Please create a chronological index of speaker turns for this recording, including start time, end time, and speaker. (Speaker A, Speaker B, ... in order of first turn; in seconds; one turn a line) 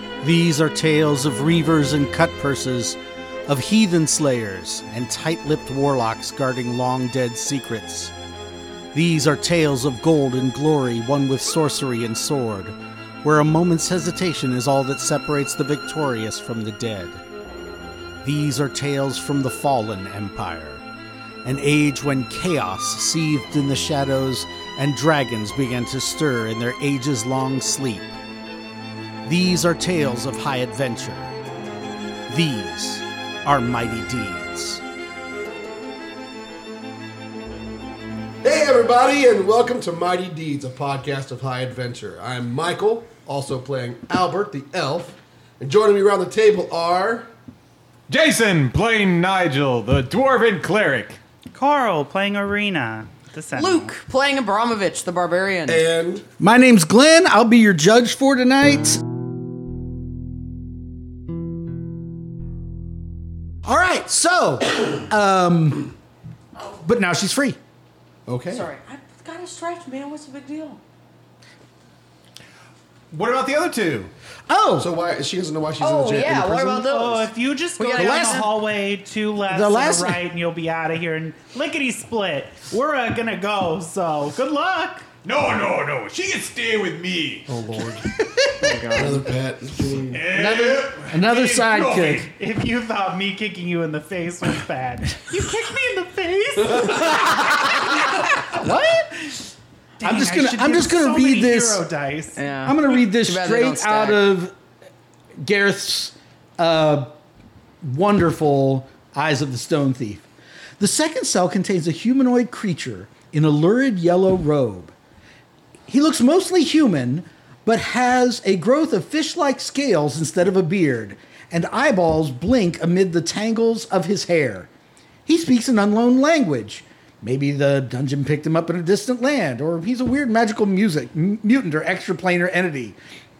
Speaker A: 0.2-8.1
Speaker A: 8.9-17.2
Speaker A: 18.2-20.8
Speaker A: 21.4-28.1
Speaker A: 29.2-31.3
Speaker A: 32.3-34.8
Speaker B: 38.4-47.3
Speaker C: 48.1-51.2
Speaker D: 51.5-53.9
Speaker E: 53.5-55.8
Speaker B: 55.7-56.2
Speaker A: 56.4-59.0
Speaker A: 63.6-65.9
Speaker A: 66.8-67.6
Speaker B: 68.3-68.7
Speaker E: 68.5-70.8
Speaker C: 73.1-74.1
Speaker A: 74.5-74.9
Speaker B: 74.8-76.9
Speaker E: 75.8-78.4
Speaker D: 76.8-85.1
Speaker A: 78.0-78.6
Speaker A: 79.5-80.2
Speaker C: 85.2-87.5
Speaker B: 87.5-88.1
Speaker A: 88.2-88.8
Speaker E: 88.6-89.3
Speaker B: 88.9-90.2
Speaker C: 90.1-92.2
Speaker A: 90.3-92.3
Speaker D: 92.2-99.4
Speaker A: 97.2-99.1
Speaker D: 100.0-102.4
Speaker A: 100.0-101.8
Speaker E: 102.3-104.2
Speaker A: 102.7-104.5
Speaker A: 105.4-107.1
Speaker A: 107.8-110.2
Speaker A: 110.8-114.9
Speaker A: 115.9-124.7
Speaker A: 125.2-132.9